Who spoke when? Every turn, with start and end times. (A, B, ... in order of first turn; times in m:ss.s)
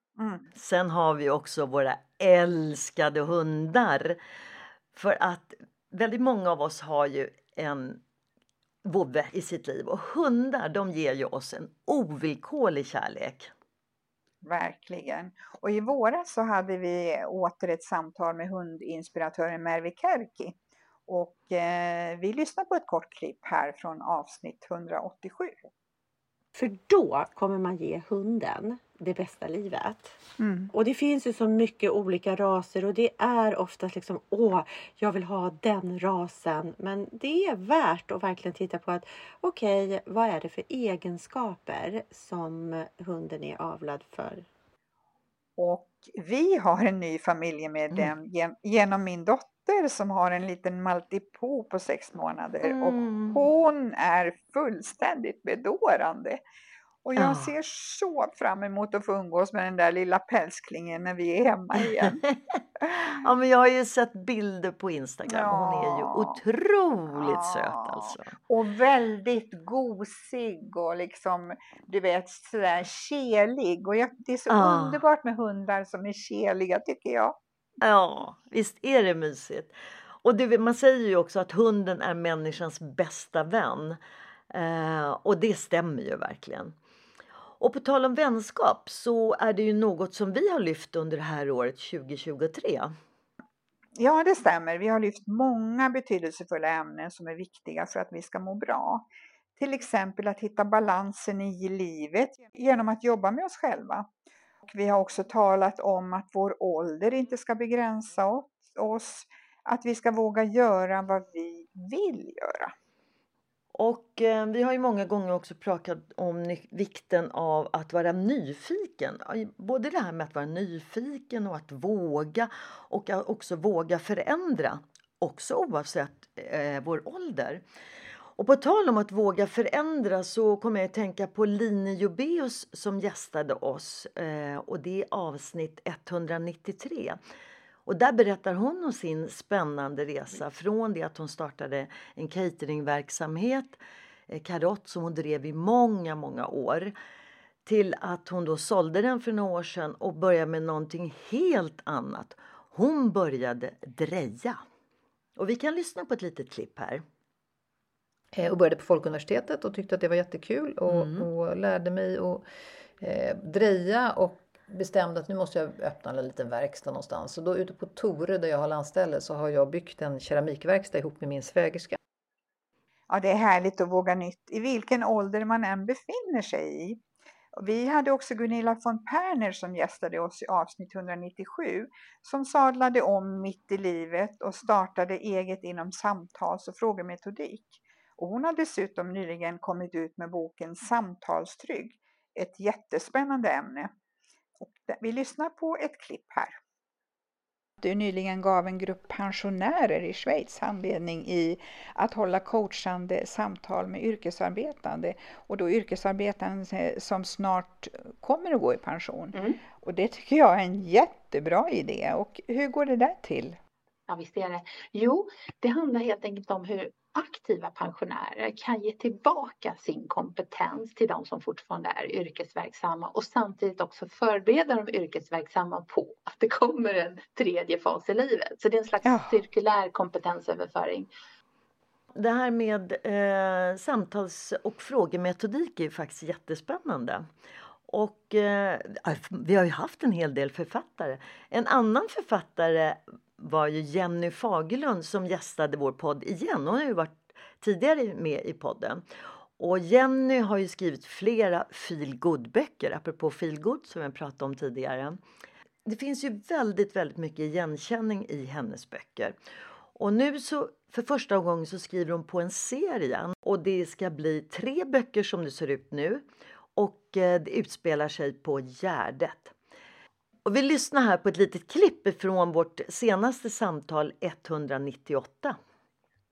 0:00.2-0:00.4 A
0:00.5-0:04.2 B
0:04.9-0:08.0 B
0:08.8-0:13.5 B
0:14.4-0:20.6 A
0:21.1-0:25.6 A
0:26.6-0:29.9 C
0:30.4-0:30.7 A
0:30.8-0:44.4 C
0:45.6-0:56.4 A
0:52.6-0:53.4 B
0:57.0-1:02.2 A
0:57.2-0:57.5 B
1:03.1-1:08.3 B
1:05.3-1:06.4 A
1:07.2-1:07.8 A
1:08.5-1:17.4 A
1:14.5-1:15.0 B
1:17.8-1:24.0 B
1:24.5-1:26.7 B
1:27.6-1:32.9 B
1:34.0-1:44.1 A
1:44.6-1:52.7 A
1:53.7-2:07.6 B
2:08.4-2:17.2 B
2:17.8-2:26.9 B
2:27.6-2:34.6 B
2:35.4-2:37.0 B
2:38.3-2:42.4 D
2:40.9-2:41.2 B
2:43.0-2:52.0 D
2:53.1-2:57.0 A
2:57.6-3:13.9 A
3:14.6-3:16.6 A
3:17.8-3:33.6 A
3:34.1-3:51.1 E
3:49.0-3:49.3 A
3:52.2-3:57.2 B
3:57.9-4:09.0 B
4:09.6-4:15.2 B
4:15.8-4:19.4 B
4:20.0-4:26.2 B
4:26.8-4:29.5 B
4:30.4-4:35.6 B